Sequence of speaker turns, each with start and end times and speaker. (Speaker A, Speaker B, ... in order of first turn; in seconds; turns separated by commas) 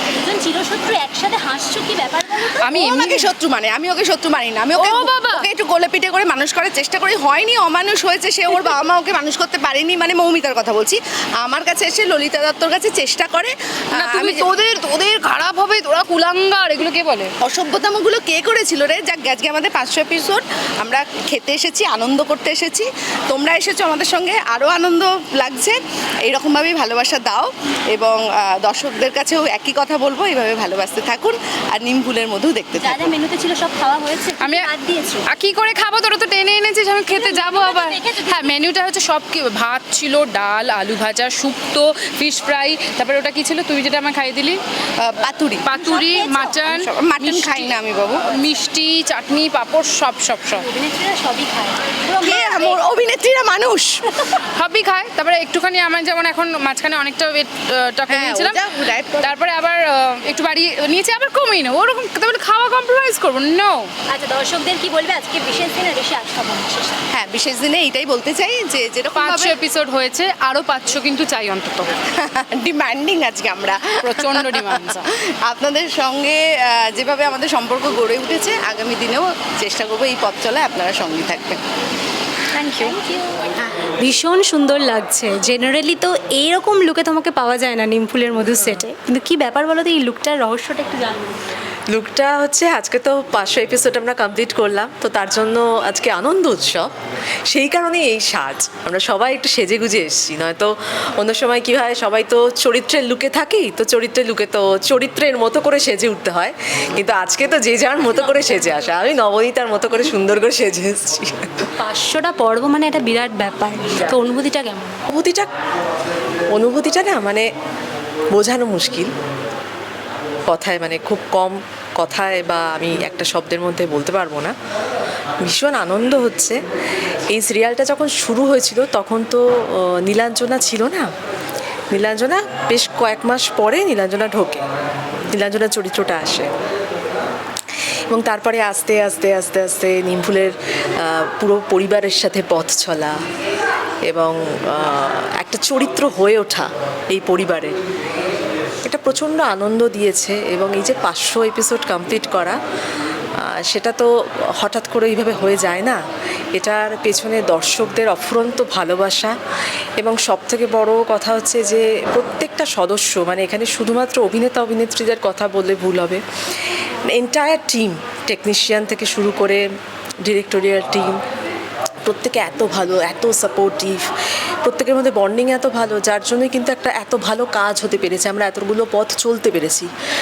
Speaker A: 0.1-2.8, Speaker B: 2.6-3.4, Speaker C: 2.7-14.6, Speaker B: 4.7-5.5, Speaker B: 13.9-17.3, Speaker C: 17.4-33.1, Speaker A: 32.8-35.3, Speaker B: 34.4-34.7, Speaker B: 35.3-44.6, Speaker A: 37.1-38.5, Speaker C: 45.0-48.2, Speaker B: 45.6-47.8, Speaker A: 46.0-46.5, Speaker B: 48.3-50.6, Speaker A: 50.5-52.8, Speaker C: 52.2-54.0, Speaker B: 54.5-58.7, Speaker C: 58.1-59.3, Speaker B: 59.2-63.9, Speaker A: 64.1-67.0, Speaker C: 67.1-69.5, Speaker B: 69.2-71.9, Speaker C: 72.1-81.6, Speaker B: 74.0-75.1, Speaker A: 82.5-83.8, Speaker D: 83.6-91.4, Speaker E: 91.9-96.9, Speaker E: 97.5-111.7, Speaker A: 108.3-108.8, Speaker D: 111.8-115.0, Speaker E: 115.1-115.5, Speaker E: 116.5-117.5, Speaker E: 118.3-119.1, Speaker E: 120.5-124.5, Speaker E: 125.4-126.6, Speaker E: 127.3-131.1, Speaker E: 131.9-134.6, Speaker E: 135.3-136.5, Speaker E: 138.1-143.2, Speaker E: 144.1-147.8, Speaker E: 148.9-152.6, Speaker E: 153.4-156.0, Speaker E: 156.5-159.3, Speaker E: 160.0-166.2, Speaker E: 167.1-169.7, Speaker E: 170.2-171.2, Speaker E: 172.1-174.0, Speaker E: 174.6-179.9